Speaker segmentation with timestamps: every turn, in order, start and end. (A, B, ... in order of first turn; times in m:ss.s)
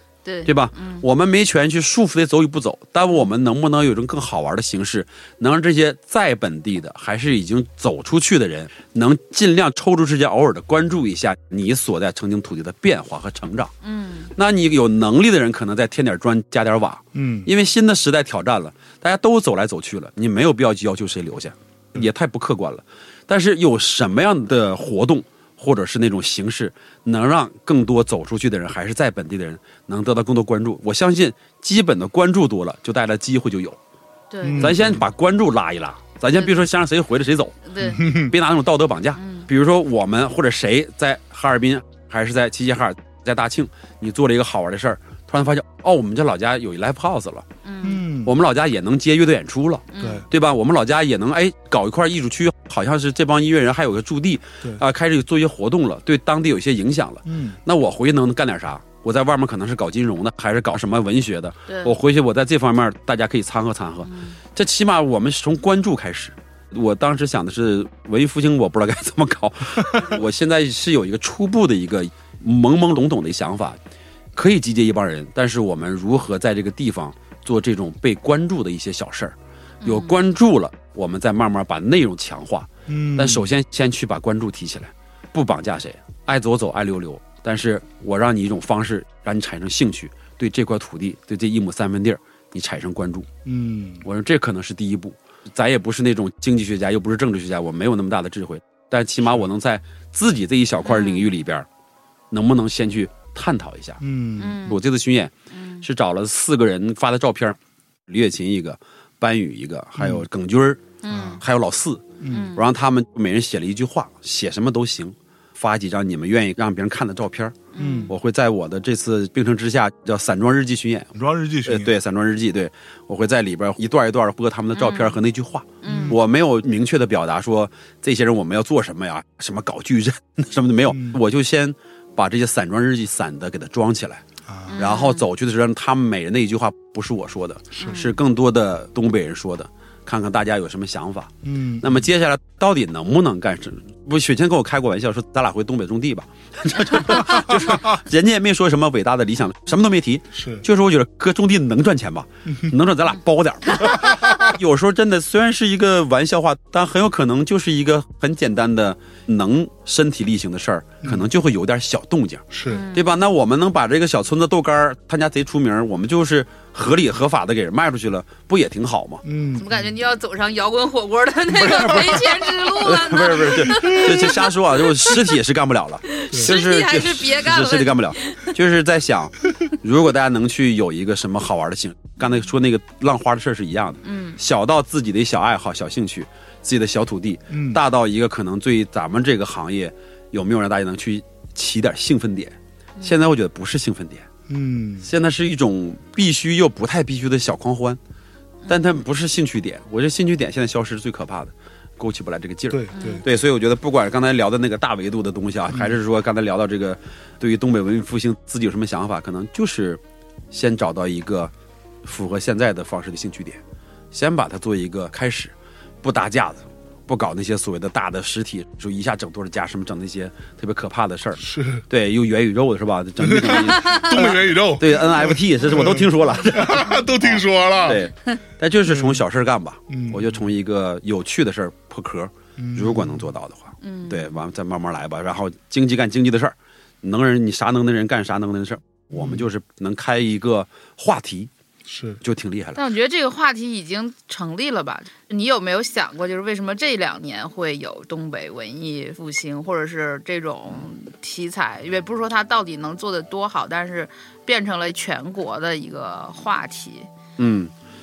0:00.2-0:01.0 A
0:00.4-0:13.7 B
0:13.8-0:14.3 A
0:14.4-0:33.8 B
0:17.1-0:17.5 C
0:34.3-0:34.8 A
0:34.4-0:35.0 C
0:34.6-0:47.5 B
0:36.3-0:36.6 A
0:37.7-0:38.1 A
0:37.8-0:38.3 C
0:39.2-0:39.5 A
0:47.6-0:48.1 A
0:47.8-0:48.3 C
0:48.2-1:13.8 B
0:49.9-0:50.3 A
0:50.0-0:50.3 C
0:57.3-0:57.6 C
1:01.7-1:02.0 A
1:04.0-1:04.4 A
1:14.3-1:33.3 B
1:19.8-1:20.2 A
1:22.9-1:23.5 C
1:33.4-1:34.0 C
1:34.0-1:41.7 B
1:40.8-1:41.3 A
1:42.3-1:44.0 B
1:44.0-1:44.6 C
1:44.4-1:44.8 A
1:44.6-2:01.1 B
1:45.5-1:45.9 A
1:50.0-1:50.2 C
1:51.0-1:51.4 A
1:51.1-1:51.4 C
1:52.2-1:52.6 C
1:52.3-1:52.6 A
1:57.8-1:58.1 A
1:57.8-1:58.1 C
2:01.1-2:01.9 C
2:01.6-2:14.2 B
2:04.8-2:05.2 A
2:05.8-2:06.2 A
2:05.8-2:06.2 C
2:10.9-2:11.2 C
2:14.5-2:14.9 C
2:14.7-2:15.3 A
2:14.8-2:49.2 B
2:17.8-2:18.2 A
2:21.4-2:22.0 C
2:27.4-2:27.8 C
2:30.3-2:30.6 C
2:32.5-2:32.7 C
2:34.0-2:34.4 C
2:41.0-2:41.3 C
2:42.5-2:42.9 C
2:42.7-2:43.2 A
2:49.2-2:49.9 C
2:49.6-2:55.3 A
2:51.5-3:14.3 B
2:51.7-2:52.0 C
2:53.8-2:54.2 C
2:56.1-2:58.5 A
3:04.0-3:04.4 A
3:07.5-3:07.8 C
3:14.5-3:15.1 C
3:15.0-3:18.0 B
3:18.6-3:19.0 A
3:18.7-3:31.5 B
3:22.7-3:23.3 C
3:22.9-3:23.3 A
3:25.7-3:26.0 C
3:32.0-3:33.6 B
3:34.1-4:01.5 B
3:41.4-3:41.8 C
3:43.2-3:48.0 C
3:43.8-3:44.2 A
3:48.9-3:49.2 C
3:49.9-3:50.4 C
3:52.6-3:53.3 C
3:53.8-3:54.4 A
3:59.1-3:59.5 C
4:01.9-4:02.2 C
4:02.2-4:02.8 B
4:02.8-4:17.1 A
4:17.4-4:17.7 B